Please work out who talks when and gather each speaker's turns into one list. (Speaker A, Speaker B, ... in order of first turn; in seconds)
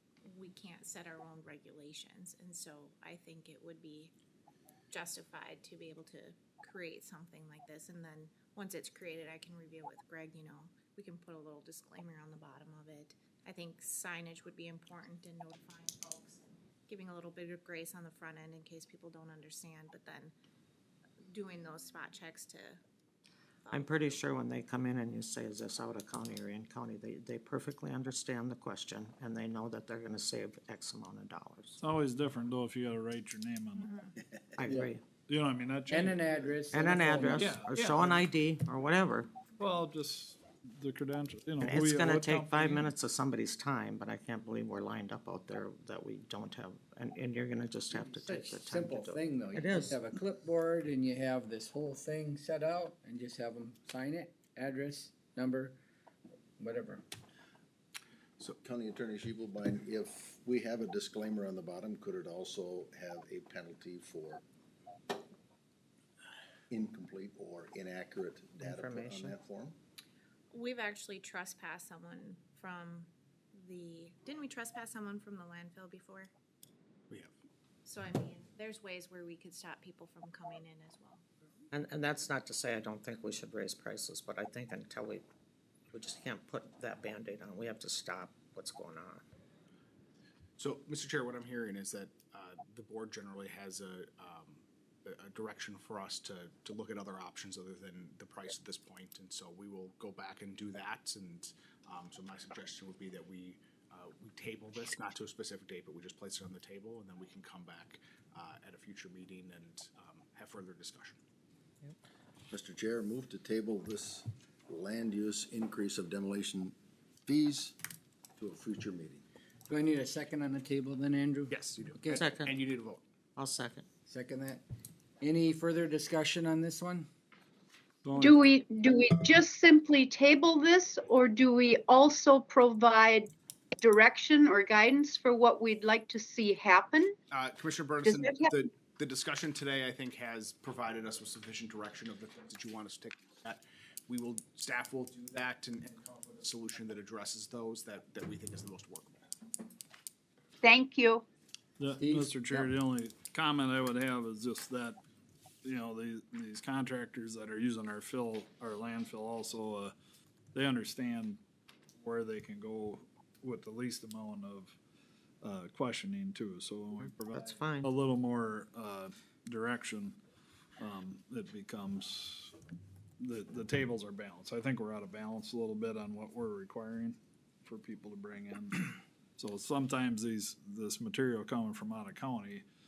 Speaker A: 0.2-4.1, 4.9-20.3, 21.3-22.8, 23.6-24.2, 33.8-34.1, 70.5-76.3, 77.8-81.2
Speaker B: 23.7-31.8, 34.6-35.0, 36.7-39.3, 41.6-50.0, 68.6-69.4, 81.7-85.2, 85.9-89.2, 122.1-122.5, 123.4-123.8, 166.9-167.9
Speaker C: 31.8-33.9, 35.3-36.2, 37.3-38.2, 39.6-42.9, 128.1-128.4, 151.8-155.0, 155.6-159.9, 160.5-161.4, 162.0-164.8, 165.4-170.2, 170.8-172.5, 173.2-182.6
Speaker D: 34.7-34.9, 35.9-37.6, 47.9-55.8, 56.6-57.0, 119.7-122.2, 124.1-124.6, 125.2-127.1, 151.9-152.7
Speaker E: 58.5-64.4, 66.7-69.8, 112.5-117.8, 118.4-119.2
Speaker F: 90.6-111.2, 121.5-123.0, 137.3-149.3
Speaker G: 128.2-133.2, 133.8-137.1, 138.1-138.5, 150.6-151.2